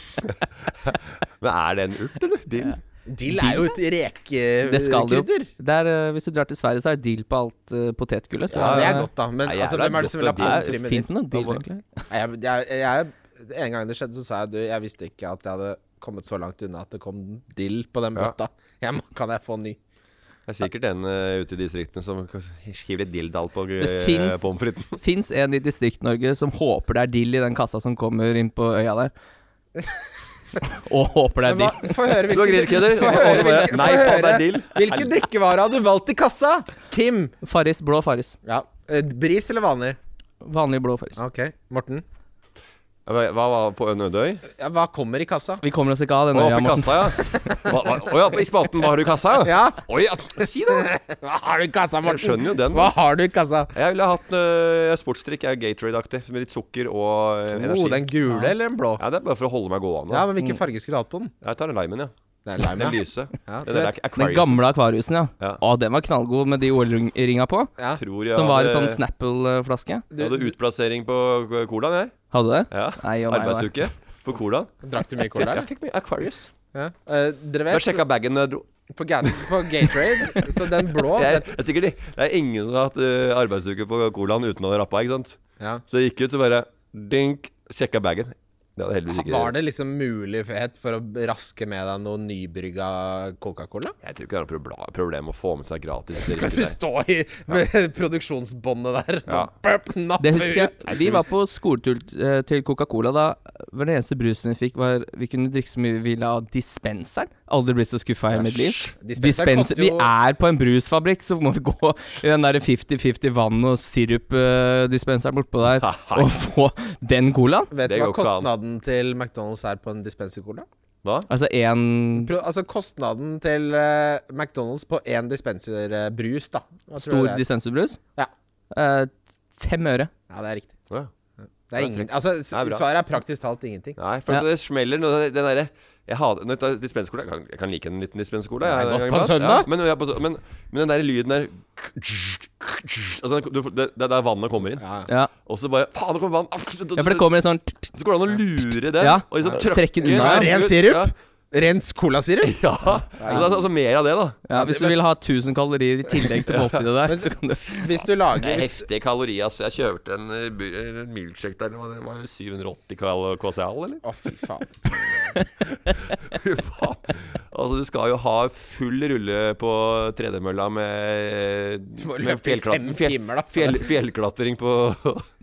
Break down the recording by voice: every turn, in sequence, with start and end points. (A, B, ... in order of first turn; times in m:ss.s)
0:00.2-0:02.8 A
0:03.1-0:05.5 B
0:03.3-0:03.7 C
0:04.6-0:09.1 C
0:08.5-0:11.1 B
0:08.6-0:10.7 A
0:10.4-0:12.0 C
0:12.1-0:19.8 B
0:20.5-0:25.0 A
0:23.8-0:29.1 C
0:30.7-0:32.3 C
0:31.4-0:37.3 B
0:32.3-0:35.1 A
0:37.4-0:38.4 C
0:38.4-0:40.0 B
0:40.4-0:41.2 C
0:41.2-0:42.0 B
0:43.0-0:44.4 A
0:44.6-0:45.6 B
0:45.6-0:47.2 C
0:46.3-0:50.9 A
0:49.4-0:49.8 B
0:50.4-0:53.7 B
0:52.0-0:52.9 A
0:53.7-0:58.1 A
0:57.5-0:59.0 B
0:59.0-1:00.3 A
1:00.1-1:01.3 B
1:01.4-1:04.6 A
1:02.4-1:03.9 B
1:04.2-1:07.7 C
1:08.0-1:09.0 A
1:08.3-1:10.0 C
1:10.1-1:10.5 B
1:10.2-1:12.1 A
1:12.3-1:13.7 C
1:12.7-1:14.7 A
1:14.8-1:15.7 B
1:15.3-1:16.5 A
1:16.7-1:18.0 B
1:17.7-1:18.7 A
1:18.9-1:21.5 B
1:19.2-1:20.5 A
1:21.0-1:29.5 A
1:29.1-1:33.9 B
1:34.0-1:36.8 A
1:36.2-1:41.0 B
1:40.2-1:57.7 C
1:40.9-1:41.2 A
1:48.3-1:48.9 A
1:49.0-1:50.1 B
1:55.8-1:56.4 A
1:57.7-2:00.7 B
1:57.8-1:58.5 A
2:01.3-2:02.3 C
2:02.2-2:07.4 B
2:07.0-2:08.0 C
2:08.7-2:10.1 C
2:10.3-2:10.7 B
2:11.7-2:14.0 B
2:11.8-2:12.8 A
2:14.0-2:24.8 A
2:18.6-2:19.7 B
2:24.8-2:25.1 B
2:25.4-2:27.3 A
2:27.0-2:27.9 C
2:27.9-2:31.1 A
2:29.0-2:30.5 C
2:30.0-2:32.6 B
2:32.4-2:34.4 A
2:33.1-2:33.6 B
2:34.5-2:37.8 C
2:34.5-2:35.0 B
2:36.5-2:36.8 A
2:37.0-2:38.8 B
2:38.3-2:44.0 A
2:44.0-2:45.4 B
2:45.9-2:55.2 A
2:52.0-2:53.9 B